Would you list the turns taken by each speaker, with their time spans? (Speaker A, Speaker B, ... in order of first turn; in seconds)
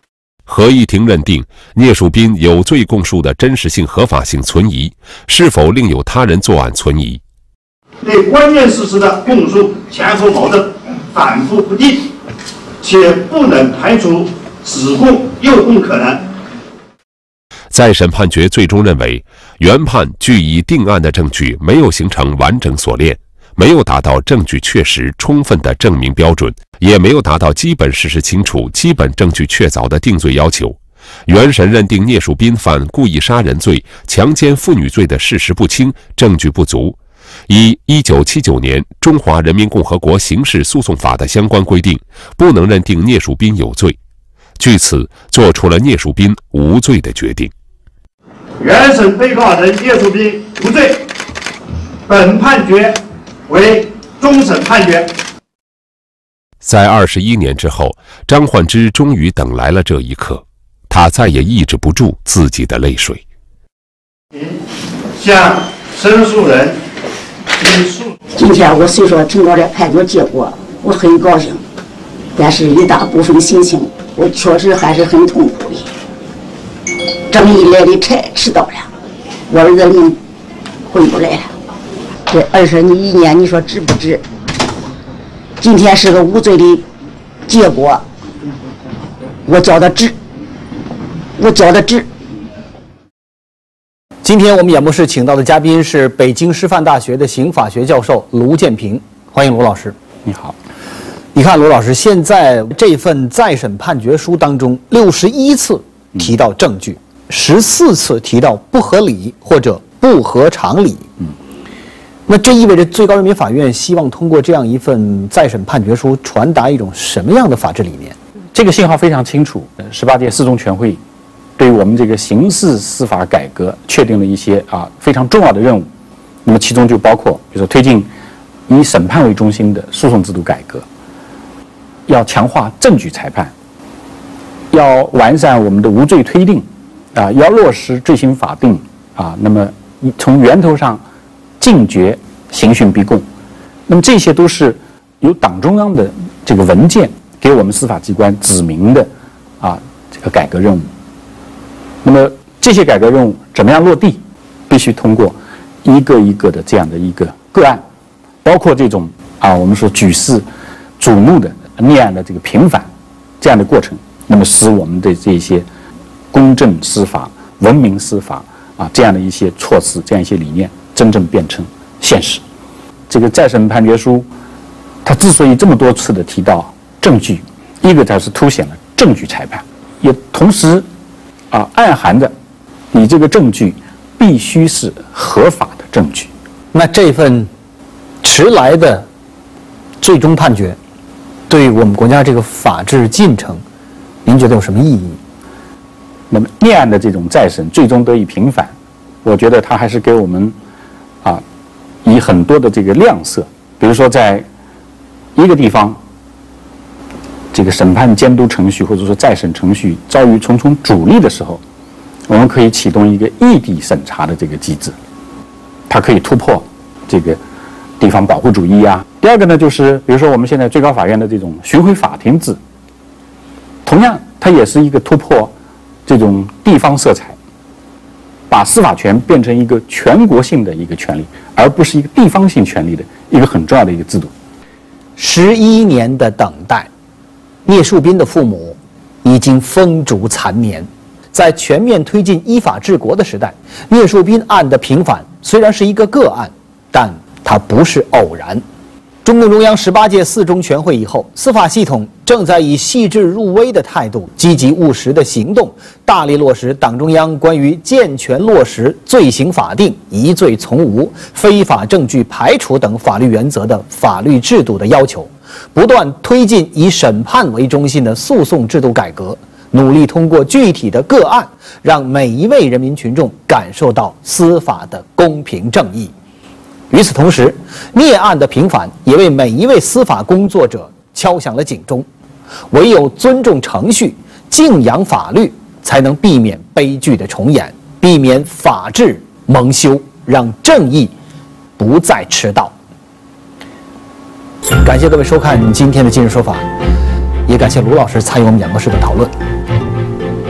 Speaker A: 0.5-7.2, 17.7-37.0, 37.5-44.0, 44.6-47.5, 56.6-63.2
Speaker B: 8.0-12.1, 12.8-16.2, 48.6-51.0, 52.1-55.1, 64.3-66.8, 67.6-68.0
Speaker C: 68.3-71.6, 72.3-75.9, 77.3-78.9, 79.5-80.2, 80.9-81.5, 82.3-84.2, 85.6-86.8, 87.5-88.0, 89.5-90.1, 91.4-92.1
Speaker D: 94.2-100.0, 101.3-111.1, 112.3-118.2, 186.7-187.5, 188.2-189.1, 190.0-190.8, 191.5-193.6, 194.2-195.2, 235.2-236.9, 237.7-248.6, 249.2-276.1, 276.9-282.1, 282.7-291.1, 291.8-292.7, 294.8-296.6, 297.5-299.3
Speaker E: 100.2-100.6, 118.5-121.0, 121.6-125.9, 126.4-128.1, 128.7-130.8, 132.1-133.5, 134.7-141.0, 141.6-143.2, 143.9-150.9, 152.0-157.8, 158.4-160.5, 161.0-162.9, 163.4-165.7, 166.3-172.4, 173.1-174.3, 175.0-180.9, 181.5-182.3, 182.9-186.3, 196.3-200.6, 202.0-204.5, 205.3-206.0, 207.5-211.6, 212.3-214.9, 215.9-217.4, 218.0-222.6, 223.8-225.5, 226.1-227.4, 228.5-234.3